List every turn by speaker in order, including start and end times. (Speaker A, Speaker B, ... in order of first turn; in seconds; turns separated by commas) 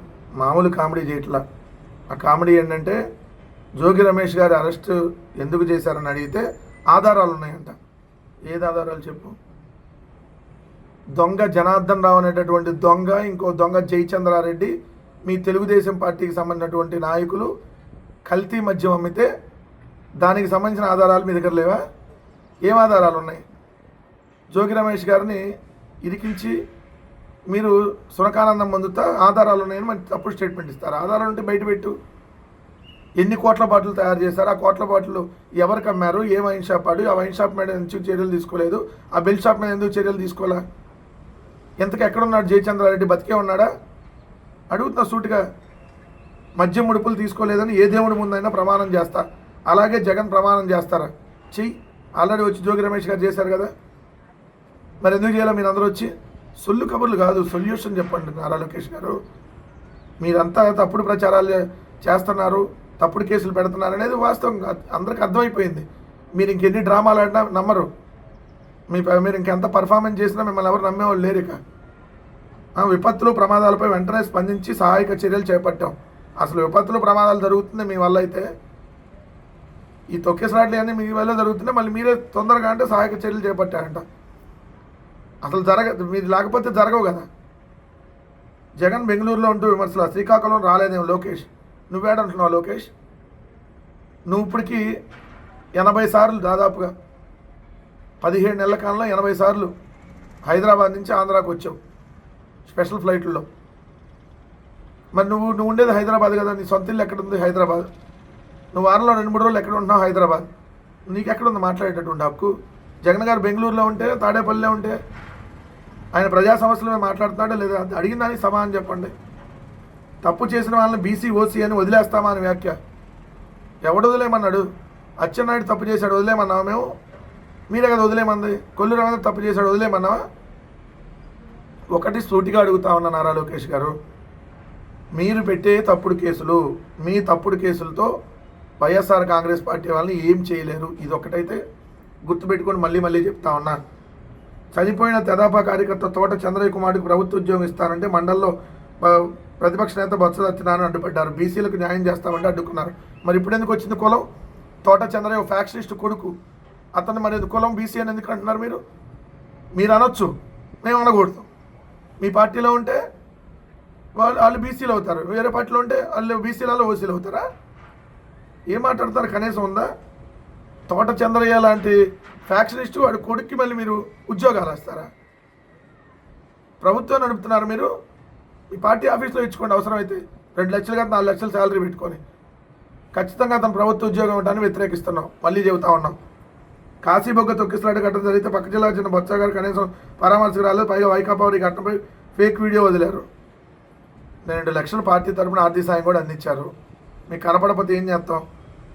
Speaker A: 0.4-1.4, Speaker A: 2.1-3.0, Speaker A: 3.8-7.8, Speaker A: 8.5-9.3, Speaker A: 11.2-14.7, Speaker A: 15.2-17.5, Speaker A: 18.2-19.3, Speaker A: 20.2-21.8, Speaker A: 22.6-23.4, Speaker A: 24.5-25.4, Speaker A: 26.0-26.6, Speaker A: 27.5-31.9, Speaker A: 33.2-40.6, Speaker A: 41.8-43.7, Speaker A: 44.7-45.4, Speaker A: 46.6-53.7, Speaker A: 55.0-59.2, Speaker A: 60.2-67.9, Speaker A: 68.9-71.6, Speaker A: 72.8-78.5, Speaker A: 80.1-84.0, Speaker A: 85.4-87.3, Speaker A: 88.8-92.9, Speaker A: 94.3-94.9, Speaker A: 95.7-96.9, Speaker A: 98.2-99.7, Speaker A: 100.5-101.8, Speaker A: 102.7-103.5, Speaker A: 105.1-107.9, Speaker A: 108.7-110.5, Speaker A: 111.1-112.5, Speaker A: 113.0-115.0, Speaker A: 116.1-119.1, Speaker A: 120.2-122.8, Speaker A: 123.8-124.7, Speaker A: 125.2-126.9, Speaker A: 127.7-130.2, Speaker A: 131.9-133.9, Speaker A: 135.1-138.1, Speaker A: 138.8-141.6, Speaker A: 142.2-143.8, Speaker A: 144.7-154.2, Speaker A: 154.8-156.3, Speaker A: 156.9-158.8, Speaker A: 159.7-161.5, Speaker A: 162.2-163.0, Speaker A: 164.2-167.4, Speaker A: 168.7-169.9, Speaker A: 170.9-175.1, Speaker A: 176.8-177.9, Speaker A: 178.7-182.2, Speaker A: 183.1-186.2, Speaker A: 187.0-193.2, Speaker A: 194.4-196.7, Speaker A: 197.3-198.4